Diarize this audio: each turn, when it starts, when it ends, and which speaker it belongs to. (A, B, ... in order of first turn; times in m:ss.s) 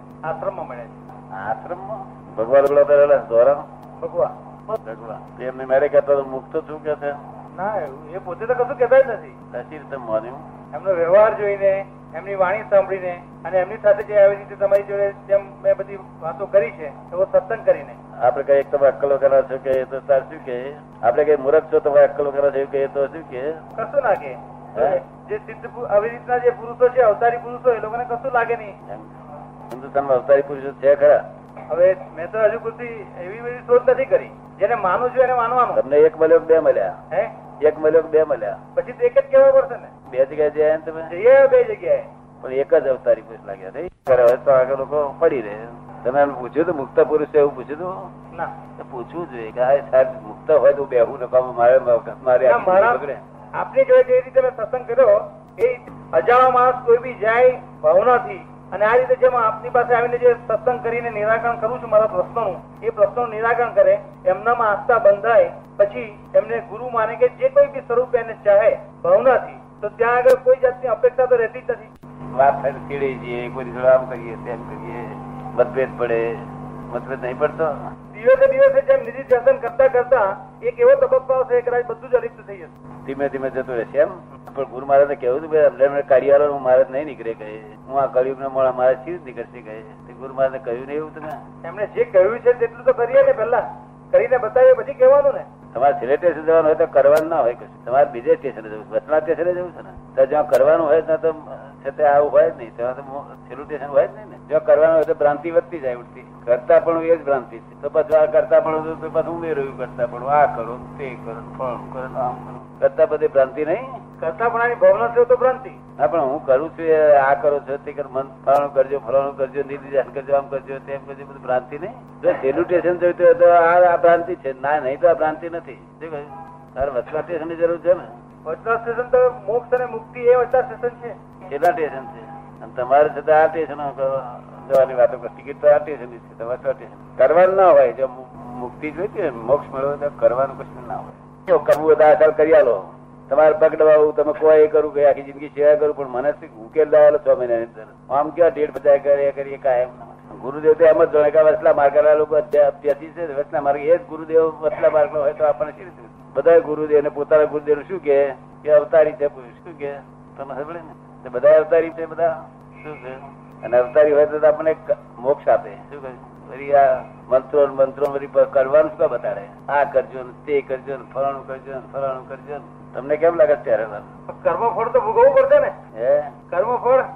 0:00.2-0:00.9 A
0:01.3-0:03.6 B
0:04.0-0:04.3 A
0:04.8-0:07.2 B
0:07.6-0:09.4 A
0:09.5-0:10.4 B
0:10.7-0:18.0 A
0:18.2-0:23.6 B
0:23.8-0:28.8 A
0:28.9-0:29.1 B
0:29.7-0:31.2 B
0:31.7-0:35.8 A
0:35.7-0:37.0 B
0:37.6-0:38.6 B
0:38.8-0:39.9 A
0:40.1-0:41.1 B
0:41.1-0:42.1 A
0:42.4-0:48.1 B
0:48.8-0:53.2 B
0:52.4-0:53.0 A
0:53.6-1:11.9 A
1:12.3-1:17.8 B
1:18.1-1:22.7 A
1:23.0-1:31.4 B
1:31.6-1:35.5 A
1:35.7-1:54.0 B
1:54.2-1:55.8 A
1:56.0-2:08.1 B
2:08.5-2:11.2 A
2:11.4-2:54.1 B
2:54.3-2:55.7 A
2:55.9-2:56.3 B
2:56.5-2:57.1 A